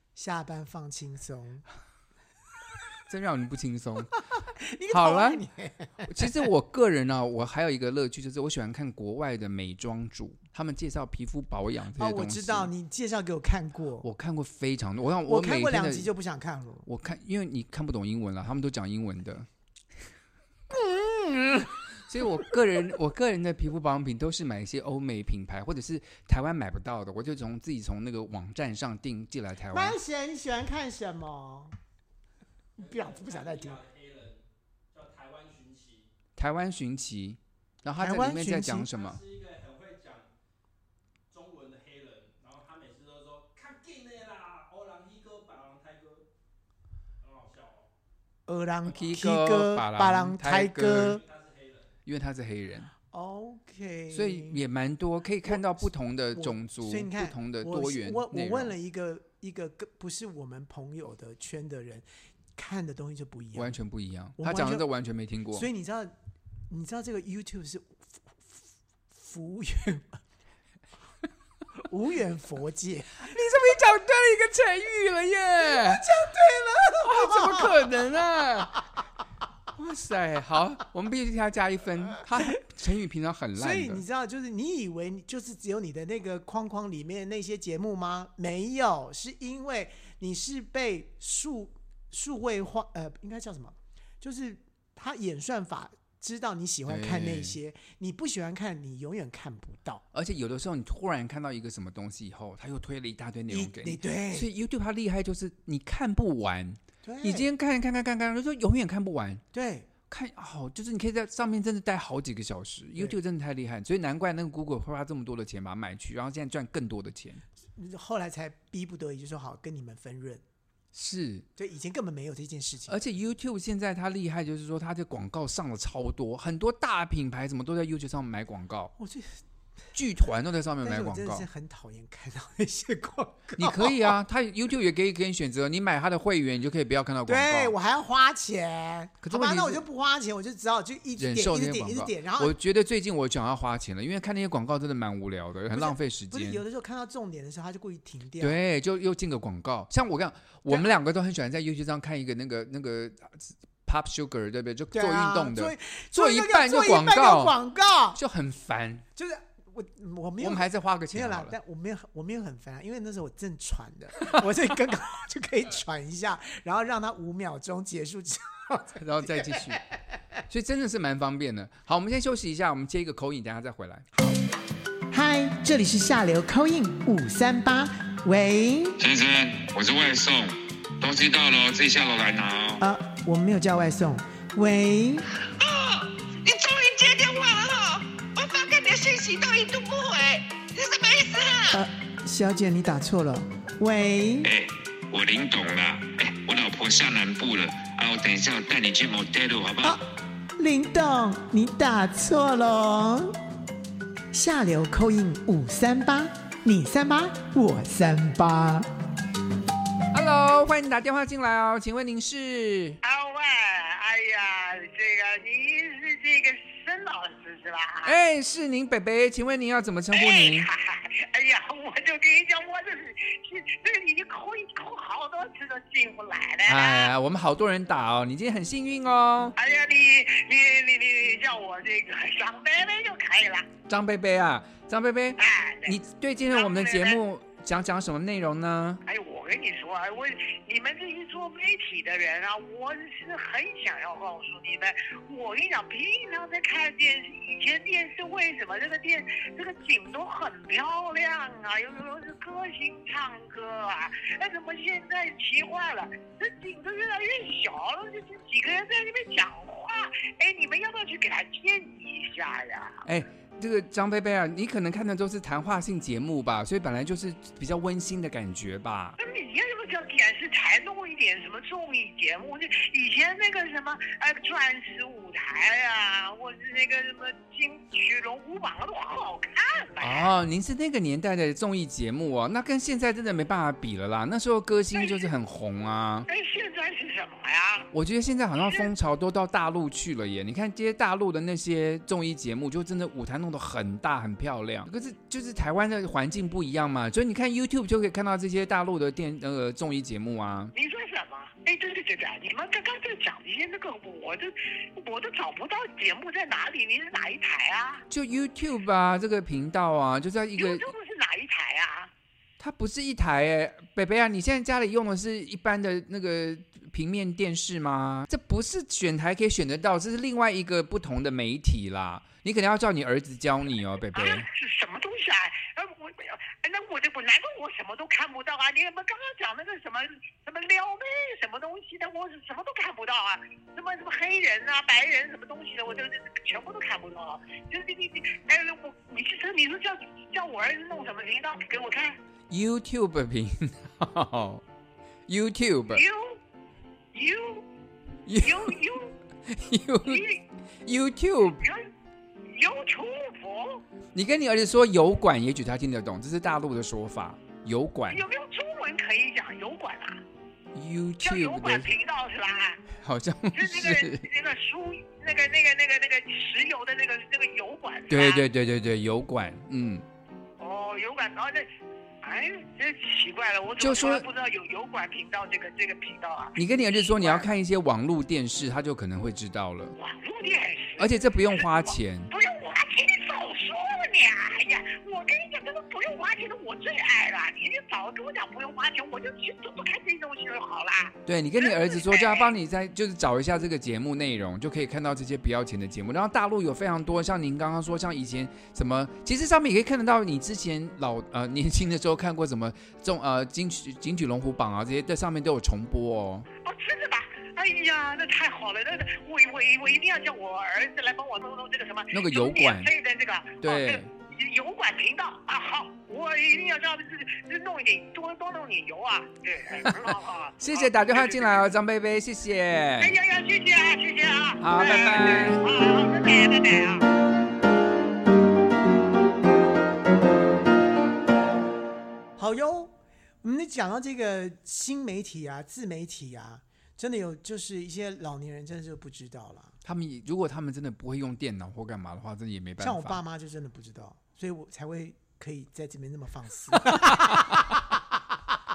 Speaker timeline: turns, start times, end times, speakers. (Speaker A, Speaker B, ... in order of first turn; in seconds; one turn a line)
Speaker A: 0.2-1.6
Speaker B: 3.1-4.1
Speaker A: 4.4-6.5
Speaker B: 4.9-5.4
Speaker B: 6.0-12.7
Speaker A: 12.0-14.1
Speaker B: 14.0-16.1
Speaker A: 15.3-16.9
Speaker B: 16.9-19.5
Speaker A: 20.8-21.7
Speaker B: 22.0-30.0
Speaker A: 29.7-31.7
Speaker A: 32.8-33.8
Speaker C: 32.8-36.1
Speaker B: 36.4-39.2
Speaker A: 38.0-38.9
Speaker C: 38.9-40.3
Speaker C: 41.3-46.2
Speaker C: 47.2-47.9
Speaker A: 48.5-51.2
Speaker B: 48.9-51.2
Speaker C: 51.0-51.9
Speaker B: 52.1-52.9
Speaker A: 53.1-54.6
Speaker B: 54.1-58.8
Speaker A: 55.5-55.8
Speaker A: 56.3-62.0
Speaker A: 62.6-63.8
Speaker B: 63.5-65.7
Speaker A: 64.4-64.9
Speaker A: 65.5-66.1
Speaker A: 66.7-70.2
Speaker A: 71.8-73.3
Speaker B: 73.2-76.1
Speaker A: 75.6-78.0
Speaker B: 77.0-78.8
Speaker B: 79.7-84.0
Speaker A: 83.6-100.0
Speaker B: 96.9-97.6
Speaker B: 100.1-109.4
Speaker A: 103.5-104.5
Speaker A: 107.0-107.5
Speaker A: 109.5-109.9
Speaker B: 110.1-117.4
Speaker A: 117.8-120.4
Speaker B: 120.9-121.5
Speaker A: 121.6-123.0
Speaker B: 122.9-128.9
Speaker A: 129.0-129.4
Speaker B: 129.9-131.5
Speaker A: 130.8-134.1
Speaker B: 133.6-137.8
Speaker A: 137.3-142.6
Speaker B: 139.2-139.8
Speaker B: 141.2-146.6
Speaker A: 145.7-148.6
Speaker B: 148.4-157.6
Speaker A: 154.9-158.2
Speaker B: 158.1-159.1
Speaker A: 159.2-169.7
Speaker B: 160.4-161.6
Speaker B: 169.0-169.8
Speaker B: 170.5-174.1
Speaker A: 175.1-179.0
Speaker D: 179.0-182.8
Speaker A: 182.8-185.2
Speaker E: 185.6-191.8
Speaker A: 191.7-194.5
Speaker D: 194.4-200.0
Speaker A: 200.6-203.4
Speaker A: 204.3-208.9
Speaker B: 210.1-213.0
Speaker F: 213.0-218.1
Speaker B: 218.0-220.7
Speaker F: 220.1-227.1
Speaker B: 226.7-229.6
Speaker F: 229.6-233.7
Speaker B: 233.9-239.0
Speaker F: 235.4-236.0
Speaker F: 236.5-237.2
Speaker F: 239.1-263.0
Speaker B: 263.1-269.2
Speaker F: 269.2-280.3
Speaker B: 280.0-286.3
Speaker F: 284.9-285.3
Speaker F: 286.3-287.9
Speaker B: 287.9-300.7
Speaker F: 300.7-308.1
Speaker B: 308.1-310.9
Speaker F: 310.6-312.1
Speaker B: 312.6-324.5
Speaker F: 324.1-342.2
Speaker B: 342.5-344.6
Speaker B: 345.3-346.1
Speaker F: 345.9-346.4
Speaker F: 347.1-347.7
Speaker B: 348.3-348.8
Speaker F: 348.4-349.1
Speaker B: 349.5-350.3
Speaker F: 350.1-350.4
Speaker B: 350.9-351.6
Speaker F: 351.5-351.9
Speaker F: 352.5-353.8
Speaker B: 354.1-358.2
Speaker F: 358.1-360.2
Speaker B: 360.7-361.9
Speaker F: 361.2-362.8
Speaker B: 362.9-364.3
Speaker F: 363.5-368.4
Speaker B: 368.1-370.1
Speaker F: 370.6-371.7
Speaker F: 372.2-377.5
Speaker B: 373.8-374.3
Speaker B: 376.6-379.9
Speaker F: 380.0-392.5
Speaker B: 381.0-382.3
Speaker B: 391.3-406.5
Speaker F: 406.6-421.6
Speaker B: 412.1-412.9
Speaker B: 413.6-414.1
Speaker B: 419.8-423.2
Speaker F: 423.0-427.1
Speaker B: 424.6-425.6
Speaker A: 432.4-432.9
Speaker A: 433.4-439.8
Speaker B: 439.8-443.2
Speaker A: 442.8-448.0
Speaker B: 446.7-447.7